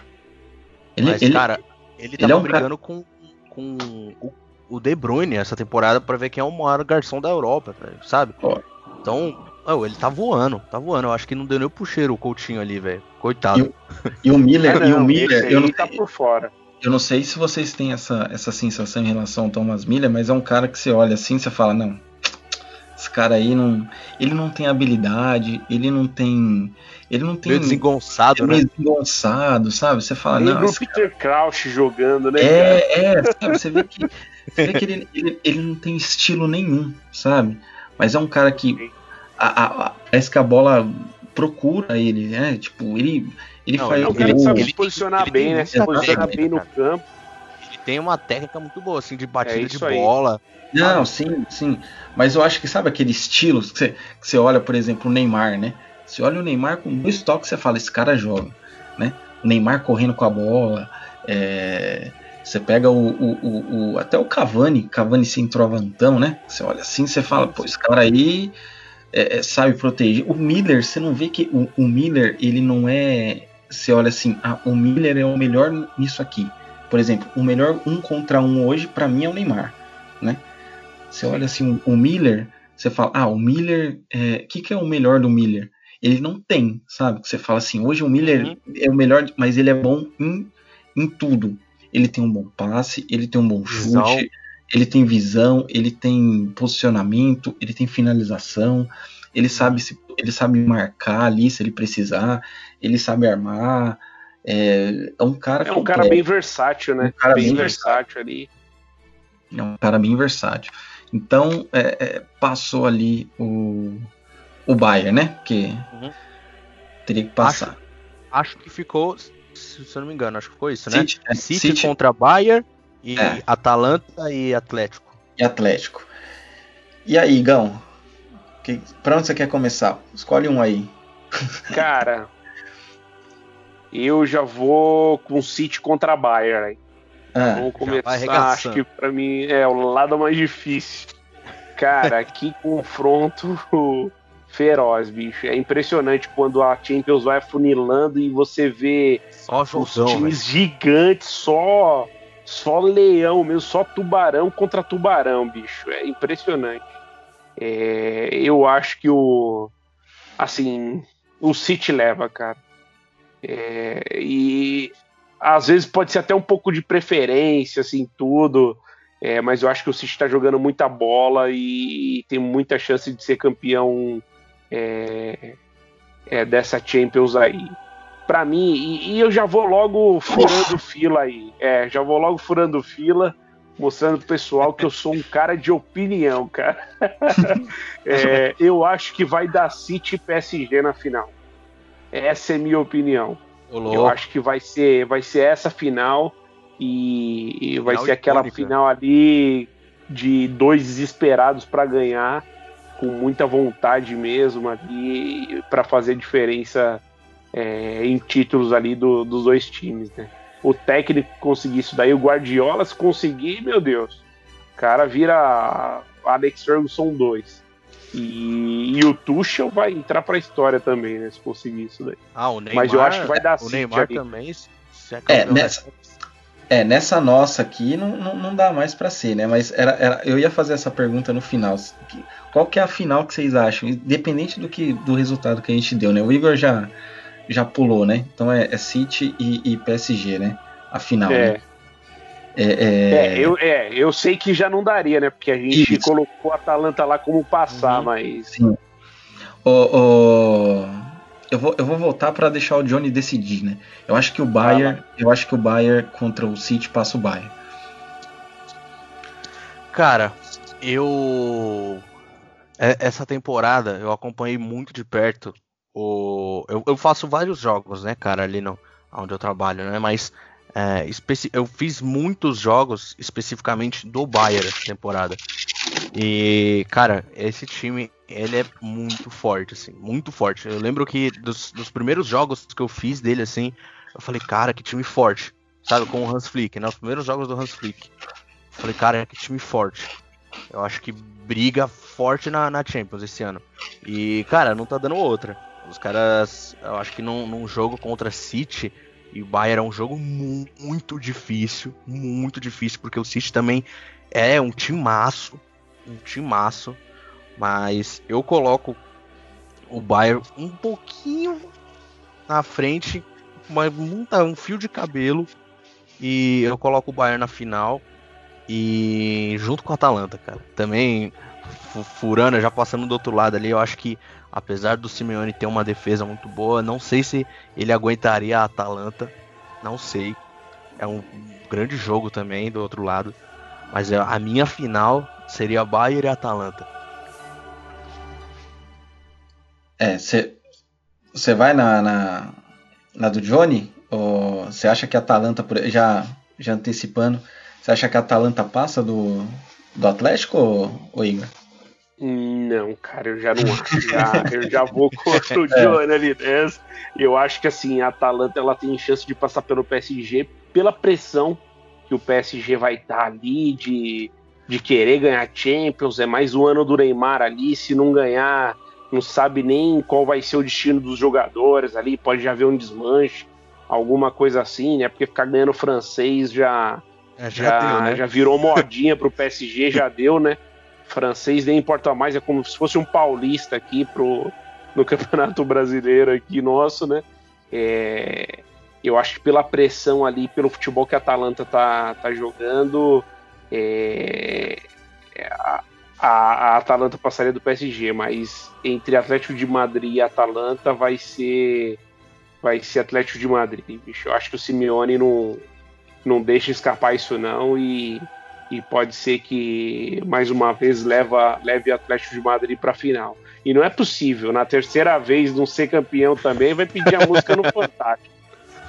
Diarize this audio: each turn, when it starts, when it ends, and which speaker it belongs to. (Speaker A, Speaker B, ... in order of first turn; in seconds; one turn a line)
Speaker A: 1.0-1.5
Speaker B: 1.0-8.4
Speaker A: 2.2-2.7
Speaker B: 9.0-13.7
Speaker A: 13.5-16.0
Speaker C: 14.6-16.5
Speaker A: 16.8-22.1
Speaker A: 23.0-27.9
Speaker B: 27.4-28.6
Speaker A: 28.4-31.0
Speaker C: 30.4-32.8
Speaker A: 32.4-38.8
Speaker B: 34.5-34.8
Speaker A: 39.4-44.7
Speaker B: 43.8-46.7
Speaker C: 44.0-47.0
Speaker A: 45.7-46.4
Speaker B: 47.6-50.4
Speaker C: 49.4-50.1
Speaker A: 50.7-68.5
Speaker B: 67.3-67.7
Speaker A: 69.1-80.4
Speaker A: 81.1-106.2
Speaker B: 88.2-88.6
Speaker B: 93.7-94.3
Speaker B: 99.5-99.8
Speaker C: 105.6-108.5
Speaker A: 107.0-108.0
Speaker B: 107.3-107.8
Speaker A: 109.5-114.1
Speaker A: 114.7-115.8
Speaker A: 117.1-117.8
Speaker B: 117.4-117.8
Speaker B: 118.3-125.2
Speaker A: 120.9-121.9
Speaker A: 125.4-126.1
Speaker A: 127.0-127.8
Speaker A: 128.6-131.0
Speaker C: 131.7-132.3
Speaker C: 133.9-136.8
Speaker A: 137.3-137.7
Speaker C: 137.5-141.2
Speaker B: 137.8-138.8
Speaker C: 141.8-156.8
Speaker B: 149.4-150.4
Speaker C: 157.6-159.7
Speaker C: 160.4-162.6
Speaker C: 163.4-175.6
Speaker C: 176.3-191.3
Speaker A: 180.4-180.7
Speaker C: 192.1-202.4
Speaker B: 193.7-194.2
Speaker B: 197.8-198.7
Speaker C: 203.0-214.2
Speaker C: 214.8-217.6
Speaker C: 218.1-222.2
Speaker B: 222.3-226.1
Speaker C: 222.7-224.2
Speaker A: 225.3-225.8
Speaker A: 226.7-236.9
Speaker A: 237.5-241.6
Speaker C: 241.3-241.6
Speaker A: 242.6-243.6
Speaker C: 243.1-248.5
Speaker A: 245.7-246.1
Speaker B: 247.7-248.1
Speaker A: 248.5-248.8
Speaker A: 249.6-257.6
Speaker C: 254.6-255.0
Speaker B: 259.9-262.1
Speaker B: 262.8-275.4
Speaker B: 276.1-288.1
Speaker B: 288.7-290.1
Speaker B: 290.7-307.0
Speaker B: 307.6-309.0
Speaker B: 309.9-311.7
Speaker B: 312.5-315.5
Speaker B: 316.2-318.1
Speaker B: 318.7-330.4
Speaker B: 331.0-333.4
Speaker B: 333.9-336.9
Speaker A: 340.0-340.6
Speaker A: 341.3-342.6
Speaker A: 343.2-351.5
Speaker C: 352.2-377.0
Speaker A: 353.6-354.7
Speaker A: 355.7-356.0
Speaker B: 377.4-378.2
Speaker C: 377.6-394.8
Speaker C: 395.4-402.0
Speaker C: 402.6-405.6
Speaker C: 406.2-418.3
Speaker B: 417.1-417.7